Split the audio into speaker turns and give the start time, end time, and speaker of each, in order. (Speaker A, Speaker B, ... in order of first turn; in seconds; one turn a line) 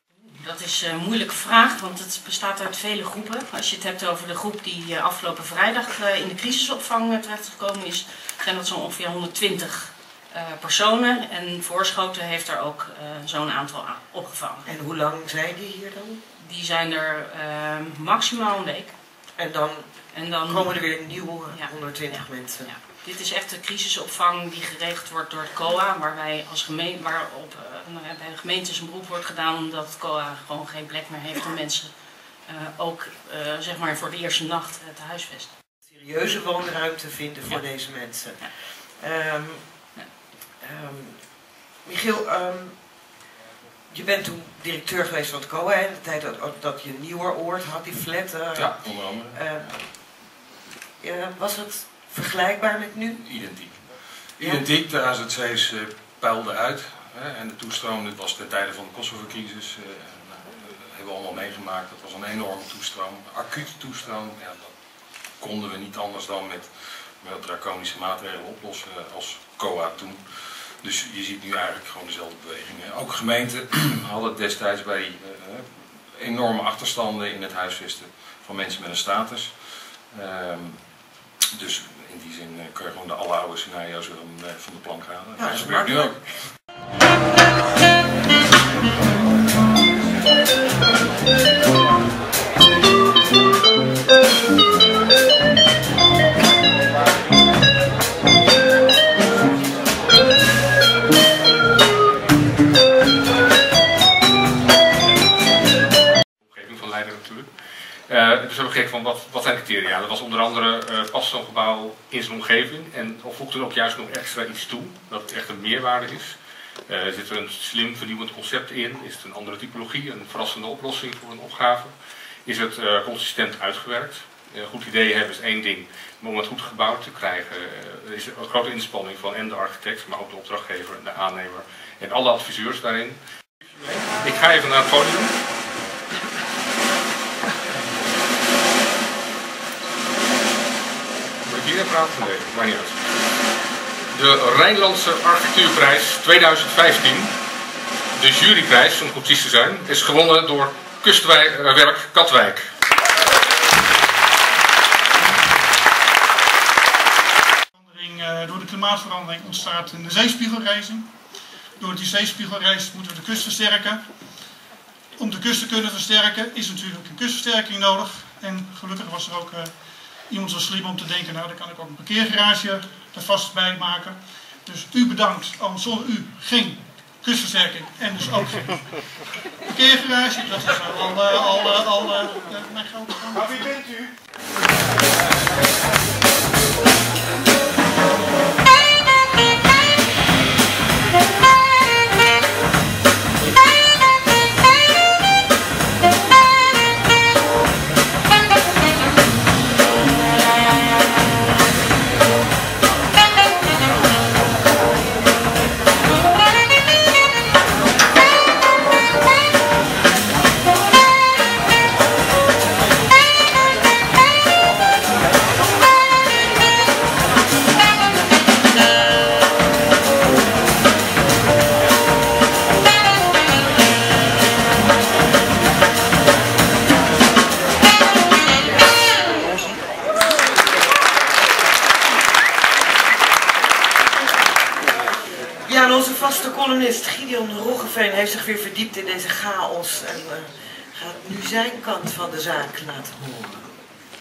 Speaker A: 0.4-14.7
Speaker B: 14.7-16.2
Speaker A: 16.4-18.9
Speaker B: 19.4-22.7
Speaker A: 20.1-35.5
Speaker B: 35.9-40.0
Speaker B: 40.6-43.1
Speaker B: 43.9-49.8
Speaker C: 48.5-49.4
Speaker B: 51.0-53.2
Speaker C: 53.2-86.2
Speaker B: 54.4-54.7
Speaker B: 85.4-86.2
Speaker D: 106.5-107.5
Speaker D: 108.1-116.4
Speaker D: 116.9-121.9
Speaker D: 122.5-133.2
Speaker D: 133.8-135.3
Speaker D: 141.4-142.9
Speaker D: 144.1-147.3
Speaker D: 148.2-152.7
Speaker E: 157.8-161.1
Speaker E: 161.8-164.0
Speaker E: 165.2-169.7
Speaker E: 170.3-178.8
Speaker E: 179.7-183.7
Speaker B: 235.6-243.7